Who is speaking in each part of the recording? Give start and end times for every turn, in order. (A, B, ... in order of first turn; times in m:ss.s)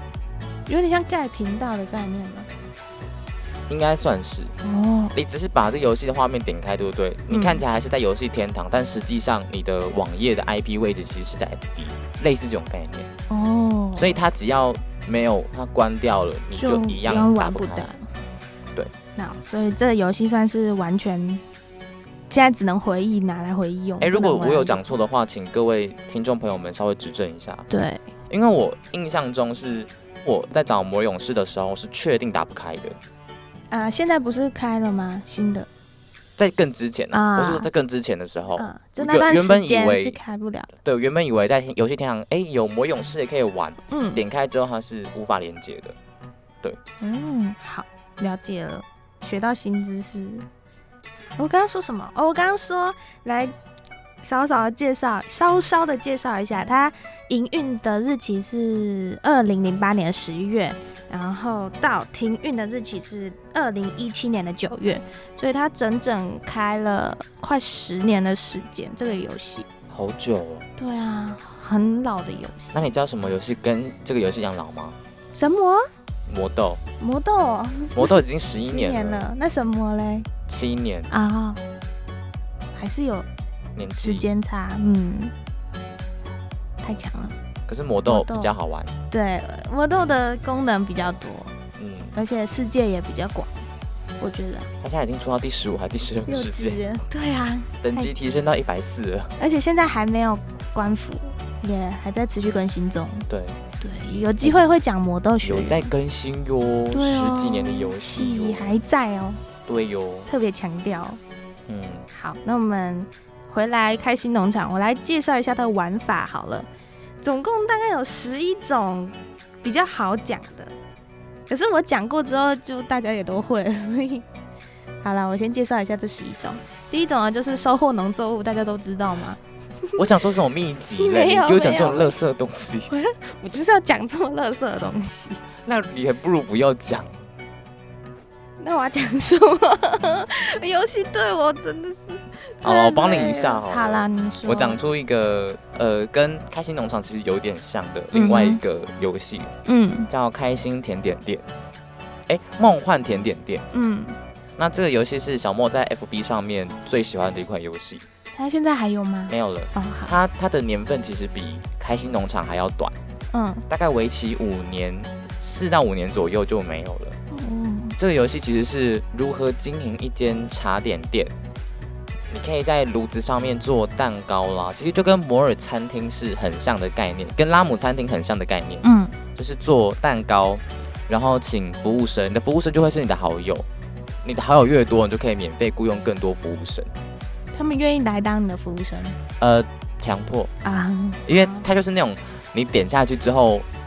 0:00.7-0:02.5 A
0:03.7-0:04.6 B
0:04.6-0:05.2 A
0:05.1-0:13.1 B
0:07.3-0:07.6 A
0:13.3-0:14.2 A
0:14.0-0:17.9 B
0:16.6-0:18.0 A
0:19.2-0:21.4 A
0:22.3-0:24.8 A
0:24.0-0:27.7 B
0:27.7-0:28.1 A
0:28.3-0:33.0 B
0:33.7-0:35.7 A
0:36.4-0:40.2 B
0:37.1-0:37.7 A
0:38.6-0:40.7 A
0:40.8-0:46.0 B
0:43.9-0:44.2 A
0:47.0-0:50.5 A
0:51.4-0:53.5 A
0:54.2-1:09.7 A
1:09.9-1:10.7 B
1:10.8-1:12.8 A
1:12.7-1:15.0 B
1:15.3-1:15.9 A
1:16.3-1:16.8 B
1:17.0-1:20.3 A
1:17.9-1:19.3 B
1:20.5-1:21.1 B
1:21.1-1:21.6 A
1:22.8-1:23.3 A
1:23.8-1:24.3 B
1:23.9-1:25.3 A
1:26.8-1:27.4 A
1:27.7-1:28.9 B
1:28.1-1:28.5 A
1:29.1-1:31.6 A
1:31.8-1:32.2 B
1:32.2-1:33.6 A
1:34.2-1:34.7 A
1:34.8-1:36.8 B
1:36.3-1:38.1 A
1:37.8-1:39.3 B
1:39.4-1:43.3 A
1:43.3-1:43.6 B
1:43.8-1:45.9 A
1:44.4-1:44.7 B
1:45.4-1:48.8 B
1:46.9-1:49.4 A
1:49.7-1:50.3 B
1:50.3-1:51.2 A
1:51.7-1:52.1 B
1:52.1-1:56.7 A
1:57.2-2:00.7 A
2:01.5-2:04.3 A
2:05.0-2:09.4 A
2:10.0-2:12.9 B
2:11.0-2:12.2 A
2:12.9-2:15.4 A
2:15.6-2:17.2 B
2:18.6-2:24.8 A
2:22.6-2:29.5 B
2:28.1-2:28.6 A
2:29.7-2:30.1 A
2:30.1-2:31.5 B
2:32.3-2:33.6 B
2:33.7-2:34.2 A
2:34.6-2:38.0 B
2:38.4-2:40.2 A
2:39.3-2:43.0 B
2:43.3-2:43.6 A
2:43.7-2:47.2 B
2:47.3-2:48.0 A
2:48.0-2:51.3 B
2:52.3-3:03.7 B
2:58.8-2:59.2 A
3:04.2-3:06.9 B
3:07.5-3:09.2 A
3:09.4-3:10.5 B
3:10.6-3:11.6 A
3:11.3-3:13.7 B